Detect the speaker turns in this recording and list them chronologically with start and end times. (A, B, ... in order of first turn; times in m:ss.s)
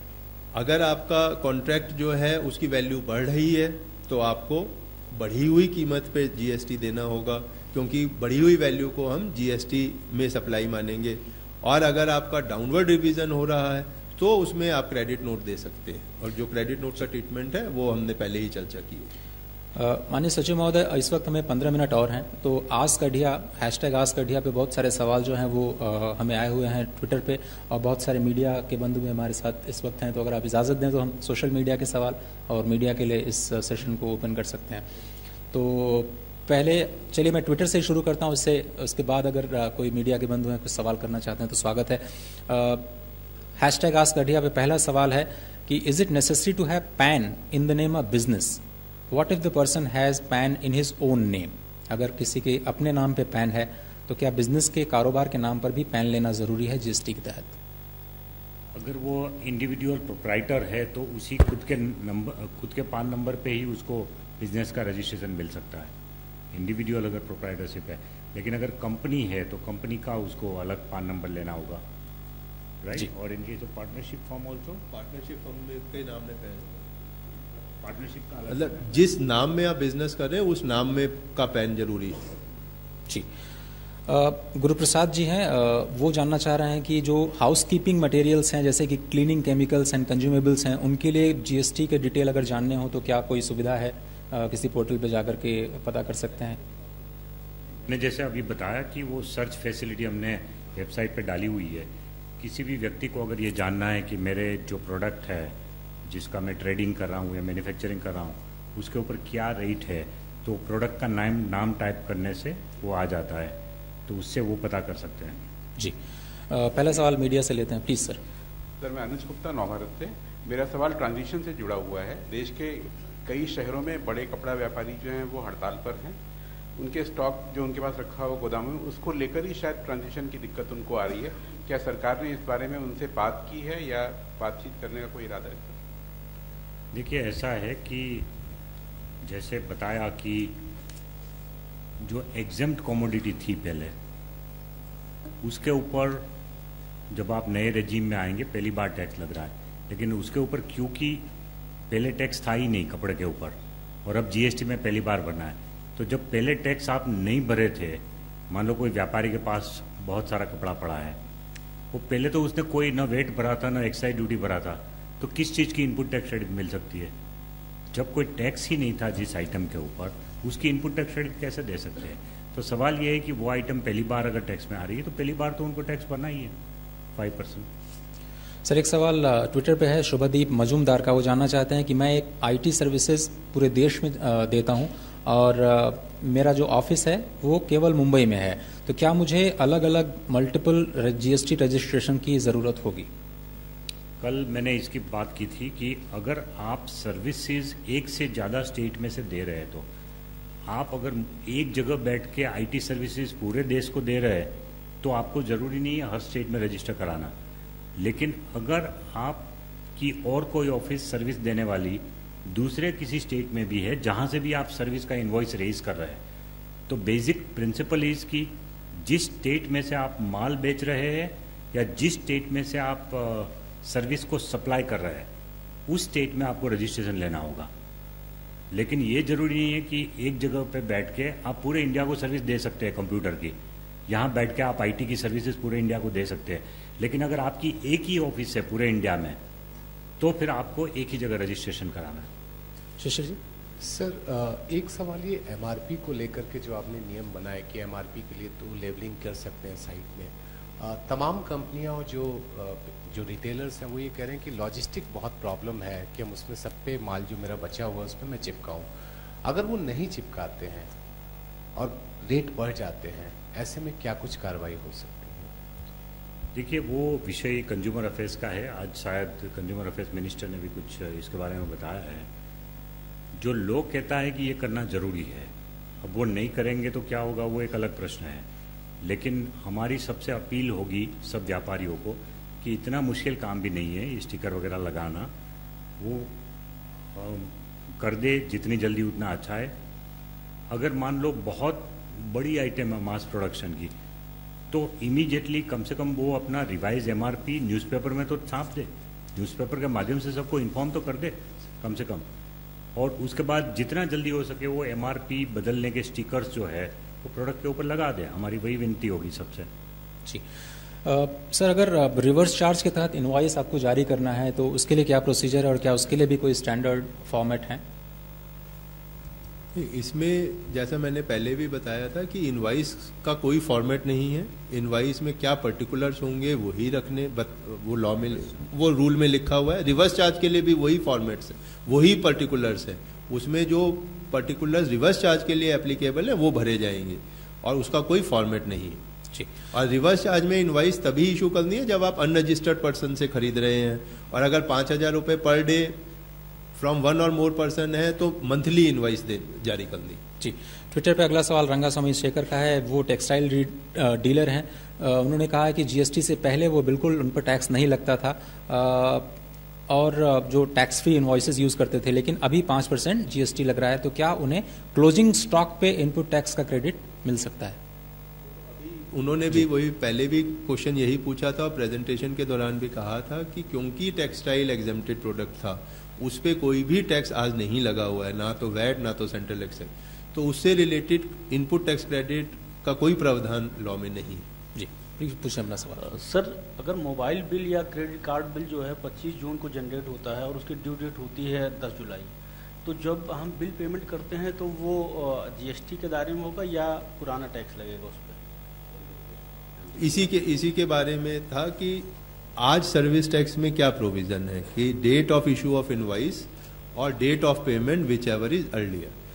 0:00.5-0:19.1 A
0:19.8-0:34.9 B
0:35.5-0:42.9 B
0:43.6-0:48.6 B
0:49.1-0:57.6 B
0:58.7-1:05.9 C
1:06.5-1:11.8 C
1:12.8-1:14.8 C
1:14.9-1:16.9 A
1:17.7-1:19.1 C
1:18.5-1:22.4 A
1:24.1-1:36.6 B
1:37.9-1:41.9 C
1:42.4-1:45.5 C
1:46.1-1:53.6 C
1:54.1-1:55.4 C
1:56.5-1:58.2 B
1:58.8-2:06.2 D
2:06.8-2:15.8 D
2:16.9-2:18.3 C
2:19.2-2:20.5 C
2:22.0-2:23.9 C
2:25.4-2:26.3 C
2:27.1-2:31.2 C
2:31.9-2:33.5 C
2:34.0-2:41.2 C
2:41.9-2:47.1 C
2:47.9-2:56.5 C
2:57.2-2:57.7 C
2:58.7-3:13.1 B
3:14.2-3:19.9 C
3:20.7-3:27.3 C
3:28.0-3:36.2 C
3:36.9-3:38.5 C
3:39.0-3:45.3 C
3:45.9-3:47.7 C
3:48.7-3:53.6 C
3:54.1-3:59.4 C
4:00.2-4:02.3 C
4:03.0-4:03.4 B
4:03.8-4:18.9 E
4:19.4-4:20.9 E
4:21.8-4:25.5 E
4:26.6-4:32.3 C
4:33.4-4:35.5 C
4:36.0-4:38.4 C
4:39.0-4:45.3 C
4:46.0-4:46.3 C
4:47.2-4:49.7 C
4:50.7-4:53.9 C
4:54.7-5:02.2 C
5:03.0-5:09.7 C
5:11.0-5:17.8 B
5:19.7-5:39.0 A
5:39.7-5:46.0 A
5:46.7-5:50.2 A
5:50.4-5:59.3 B
5:59.9-6:07.8 B
6:08.7-6:24.5 A
6:24.8-6:26.0 B
6:26.0-6:32.3 F
6:32.8-6:38.4 F
6:40.0-6:49.1 A